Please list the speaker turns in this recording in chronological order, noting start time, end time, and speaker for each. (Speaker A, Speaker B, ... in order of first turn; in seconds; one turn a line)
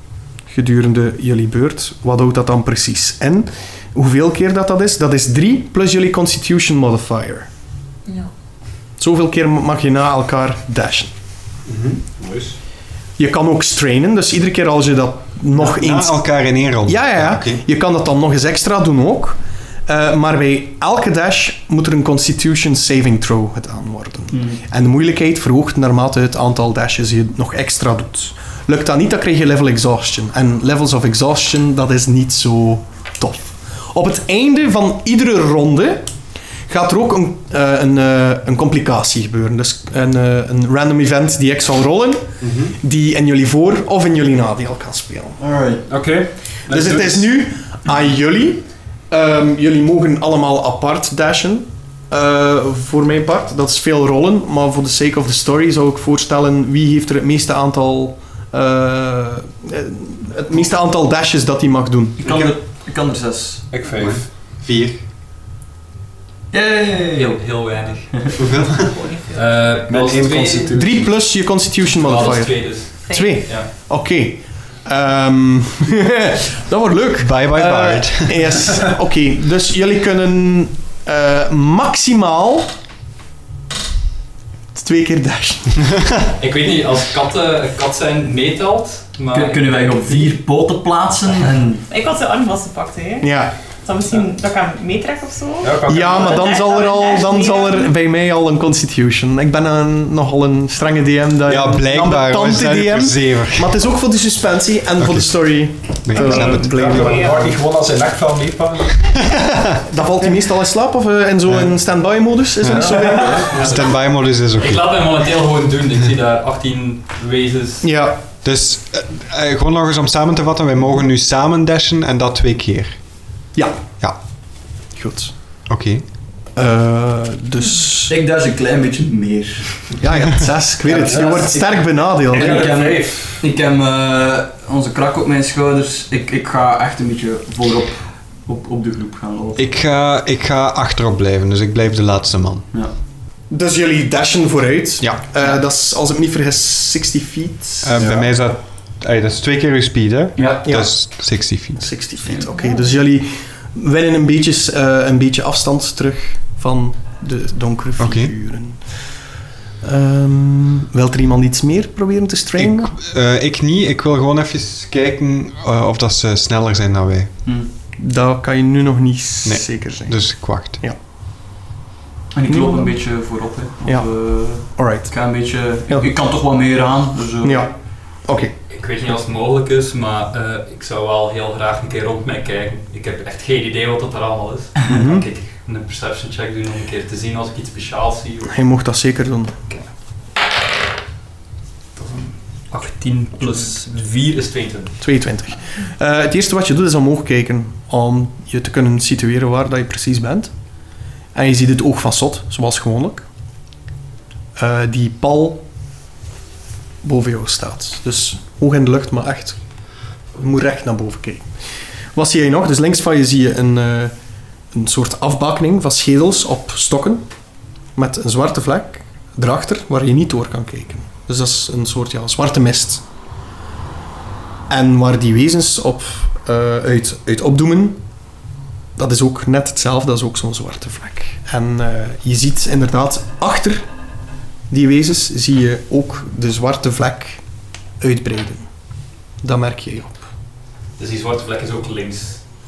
Speaker A: 0.5-7.5
Speaker A: 9.0-11.1
Speaker B: 11.7-12.0
Speaker C: 12.2-12.5
Speaker A: 13.2-16.3
Speaker B: 15.6-17.6
Speaker A: 16.9-36.1
Speaker D: 24.3-24.6
Speaker A: 36.7-45.4
Speaker B: 42.4-42.7
Speaker D: 45.4-45.9
Speaker C: 45.9-47.3
Speaker A: 46.7-62.2
Speaker D: 62.2-63.7
Speaker C: 62.2-62.5
Speaker C: 63.7-64.3
Speaker B: 64.0-65.0
Speaker D: 66.5-67.6
Speaker E: 67.1-68.2
Speaker B: 68.4-68.9
Speaker F: 68.6-69.7
Speaker E: 69.3-70.8
Speaker C: 69.9-71.1
Speaker A: 70.7-82.7
Speaker E: 71.9-73.7
Speaker F: 73.1-73.4
Speaker B: 77.2-78.7
Speaker A: 84.8-86.2
Speaker E: 86.4-90.3
Speaker D: 89.3-91.8
Speaker F: 91.9-97.9
Speaker A: 93.2-93.5
Speaker C: 95.6-96.6
Speaker A: 95.9-107.3
Speaker B: 101.5-103.8
Speaker B: 105.0-105.3
Speaker B: 106.0-107.0
Speaker C: 106.2-109.2
Speaker F: 106.9-107.4
Speaker B: 109.0-109.8
Speaker A: 109.9-113.7
Speaker B: 112.6-114.9
Speaker C: 112.7-113.7
Speaker E: 113.5-113.8
Speaker E: 114.6-117.9
Speaker A: 117.8-118.2
Speaker B: 118.4-123.0
Speaker A: 123.5-123.8
Speaker A: 125.0-125.3
Speaker B: 125.7-126.0
Speaker A: 126.5-128.1
Speaker D: 128.1-130.1
Speaker A: 130.0-132.7
Speaker C: 130.9-131.5
Speaker D: 130.9-139.6
Speaker C: 132.3-133.4
Speaker B: 139.6-142.7
Speaker A: 143.5-148.2
Speaker B: 147.8-151.9
Speaker D: 150.4-150.7
Speaker A: 150.7-151.0
Speaker A: 151.8-159.0
Speaker F: 152.5-152.9
Speaker B: 158.0-158.3
Speaker A: 159.8-162.9
Speaker B: 162.6-167.3
Speaker A: 168.0-171.0
Speaker B: 169.4-170.8
Speaker D: 172.3-177.7
Speaker A: 172.5-172.9
Speaker A: 173.9-175.1
Speaker A: 177.4-177.7
Speaker A: 178.2-178.5
Speaker E: 178.7-188.6
Speaker A: 184.9-185.3
Speaker A: 188.5-189.6
Speaker E: 192.0-195.0
Speaker A: 195.0-200.5
Speaker A: 201.3-203.2
Speaker A: 204.6-205.6
Speaker A: 207.0-209.6
Speaker A: 210.3-211.4
Speaker A: 212.2-214.1
Speaker A: 214.7-217.2
Speaker A: 218.0-223.0
Speaker A: 224.7-228.0
Speaker A: 229.0-233.8
Speaker A: 234.7-237.4
Speaker A: 238.0-238.7
Speaker A: 239.4-240.3
Speaker E: 241.0-242.4